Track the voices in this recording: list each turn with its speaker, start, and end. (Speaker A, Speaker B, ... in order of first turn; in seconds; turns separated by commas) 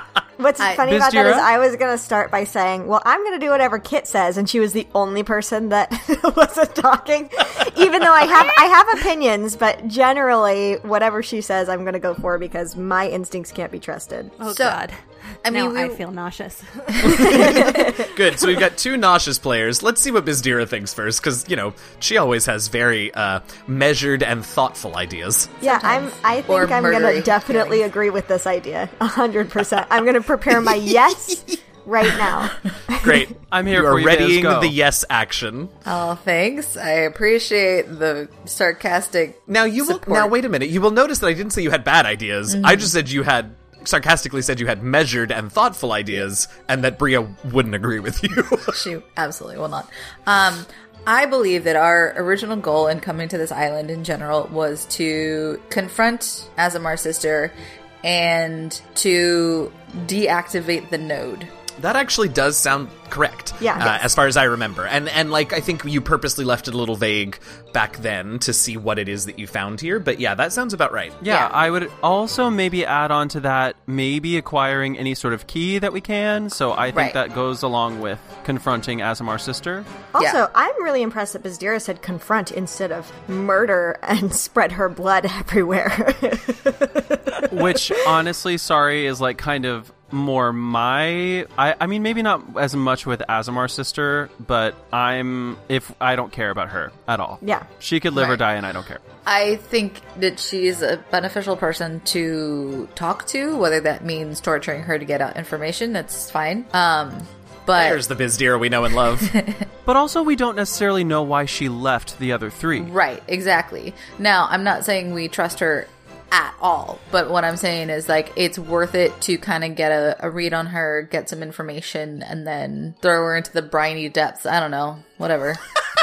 Speaker A: 0.4-14.4, Speaker B: 0.6-0.9, Speaker C: 0.8-1.5, Speaker D: 14.4-17.4, Speaker B: 14.4-14.8, Speaker B: 15.4-16.0, Speaker B: 17.0-18.1, Speaker A: 17.0-18.1, Speaker E: 17.4-25.6, Speaker A: 25.6-33.3, Speaker B: 25.6-27.8, Speaker E: 32.9-35.7, Speaker C: 33.5-34.8, Speaker B: 35.8-40.3, Speaker E: 39.5-48.8, Speaker B: 42.5-42.9, Speaker B: 48.7-61.5, Speaker E: 61.8-71.2, Speaker A: 63.6-64.1, Speaker C: 71.2-79.9, Speaker B: 71.2-71.5, Speaker B: 76.9-77.2, Speaker A: 80.1-87.9, Speaker B: 80.2-80.4, Speaker C: 87.5-99.0, Speaker A: 97.4-97.7, Speaker B: 98.1-98.4, Speaker B: 99.2-108.0, Speaker E: 107.8-109.3, Speaker B: 109.1-109.7, Speaker C: 109.8-112.9, Speaker B: 112.7-125.6